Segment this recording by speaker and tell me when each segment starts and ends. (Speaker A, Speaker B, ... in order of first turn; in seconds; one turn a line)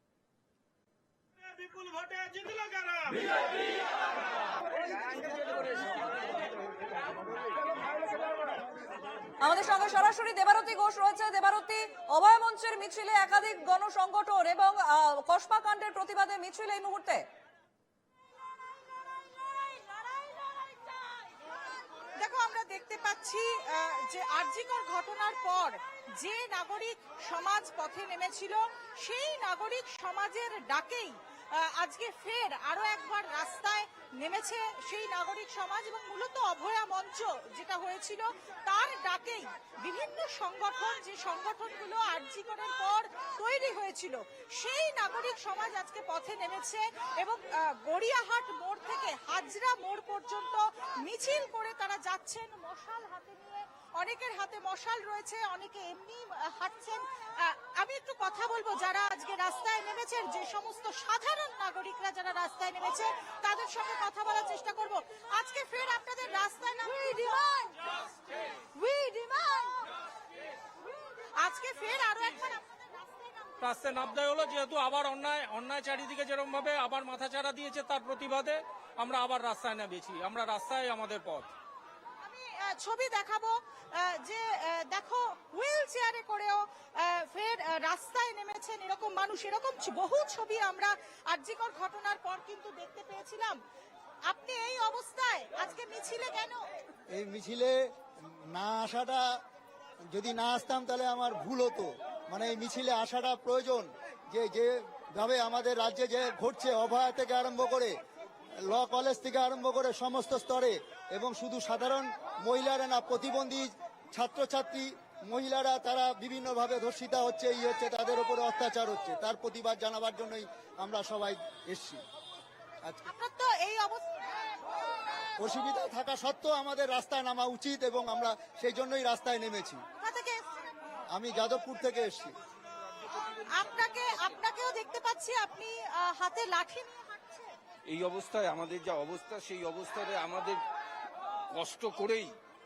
Speaker A: 1.8-3.1
Speaker B: 9.4-17.2
Speaker C: 22.2-67.7
Speaker C: 68.7-69.8
Speaker C: 71.4-73.6
Speaker A: 73.6-81.5
Speaker C: 82.2-93.6
Speaker C: 94.3-96.6
Speaker D: 97.1-97.8
Speaker D: 98.3-99.2
Speaker D: 100.1-108.0
Speaker D: 108.6-122.0
Speaker C: 123.0-124.3
Speaker D: 125.4-129.8
Speaker C: 130.0-130.4
Speaker D: 131.1-132.3
Speaker C: 133.4-137.5
Speaker E: 137.9-140.6
Speaker E: 141.5-142.3